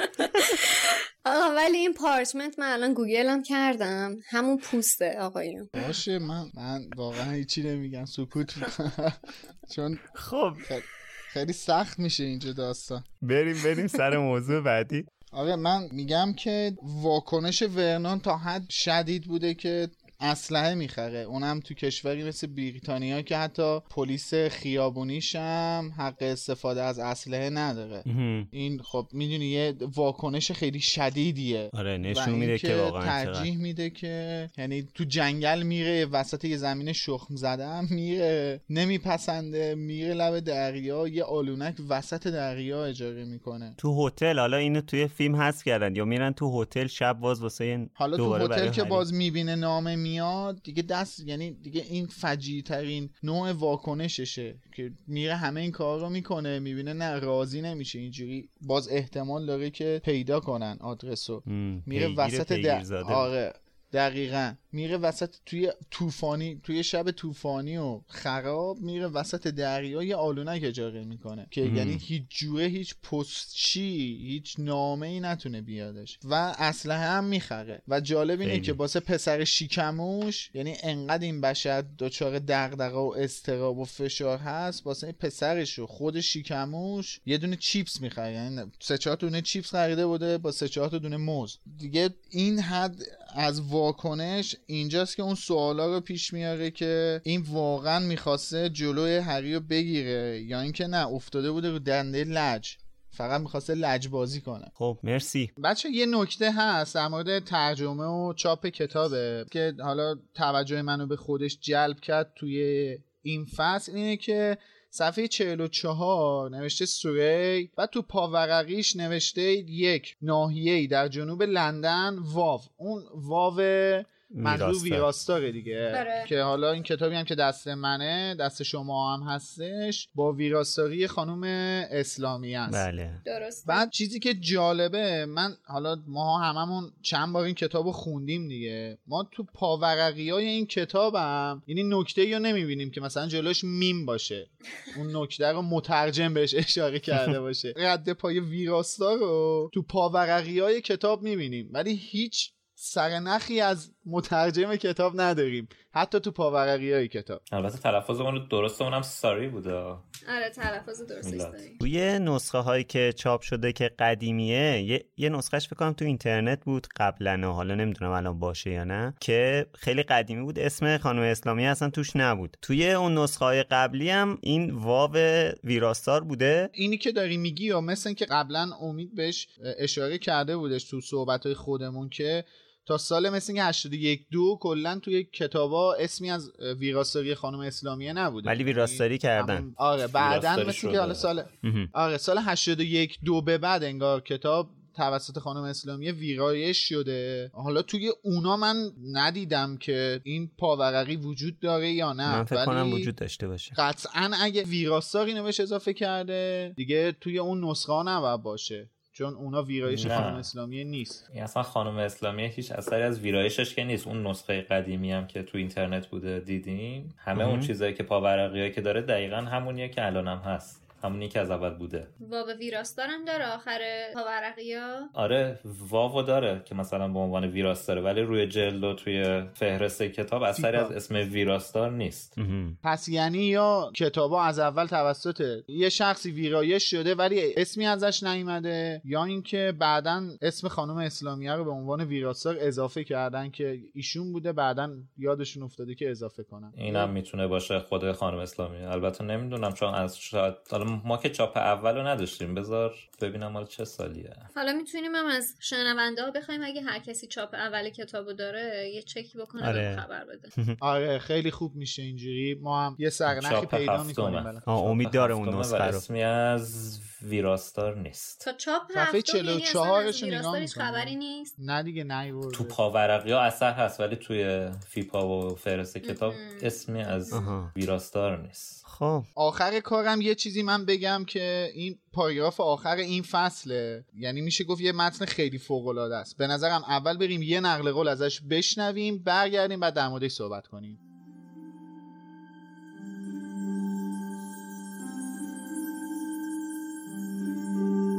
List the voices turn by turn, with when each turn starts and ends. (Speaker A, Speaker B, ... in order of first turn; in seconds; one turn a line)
Speaker A: 0.2-5.8
Speaker B: 5.8-10.0
Speaker C: 10.1-10.7
Speaker B: 10.6-13.1
Speaker C: 13.2-15.1
Speaker B: 15.3-43.8
Speaker C: 28.1-28.5
Speaker C: 31.7-33.5
Speaker C: 43.8-49.0
Speaker B: 48.0-104.7
Speaker C: 61.5-63.3
Speaker C: 71.6-72.0
Speaker C: 78.4-78.7
Speaker C: 104.8-105.5
Speaker B: 105.6-132.8
Speaker C: 124.3-125.1
Speaker A: 125.9-126.3
Speaker C: 132.7-133.2
Speaker A: 133.2-133.9
Speaker B: 133.7-157.4
Speaker D: 157.5-160.0
Speaker A: 160.3-161.8
Speaker D: 161.2-161.6
Speaker C: 161.8-176.7
Speaker B: 176.7-203.1
Speaker C: 188.4-189.7
Speaker D: 190.1-191.3
Speaker C: 191.6-191.9
Speaker C: 202.3-203.8
Speaker B: 203.7-211.2
Speaker C: 209.9-210.3
Speaker D: 210.0-210.5
Speaker D: 211.3-222.1
Speaker C: 217.3-217.7
Speaker A: 222.2-225.1
Speaker D: 225.1-232.4
Speaker B: 230.5-230.9
Speaker C: 232.4-232.8
Speaker B: 232.8-247.1
Speaker D: 246.8-254.4
Speaker A: 254.5-260.5
Speaker C: 259.6-260.0
Speaker B: 260.8-264.9
Speaker D: 263.3-268.4
Speaker C: 264.7-266.0
Speaker A: 268.4-271.5
Speaker B: 268.9-272.8
Speaker D: 272.5-278.8
Speaker A: 276.0-277.5
Speaker C: 277.3-277.7
Speaker C: 278.8-279.3
Speaker B: 279.4-291.0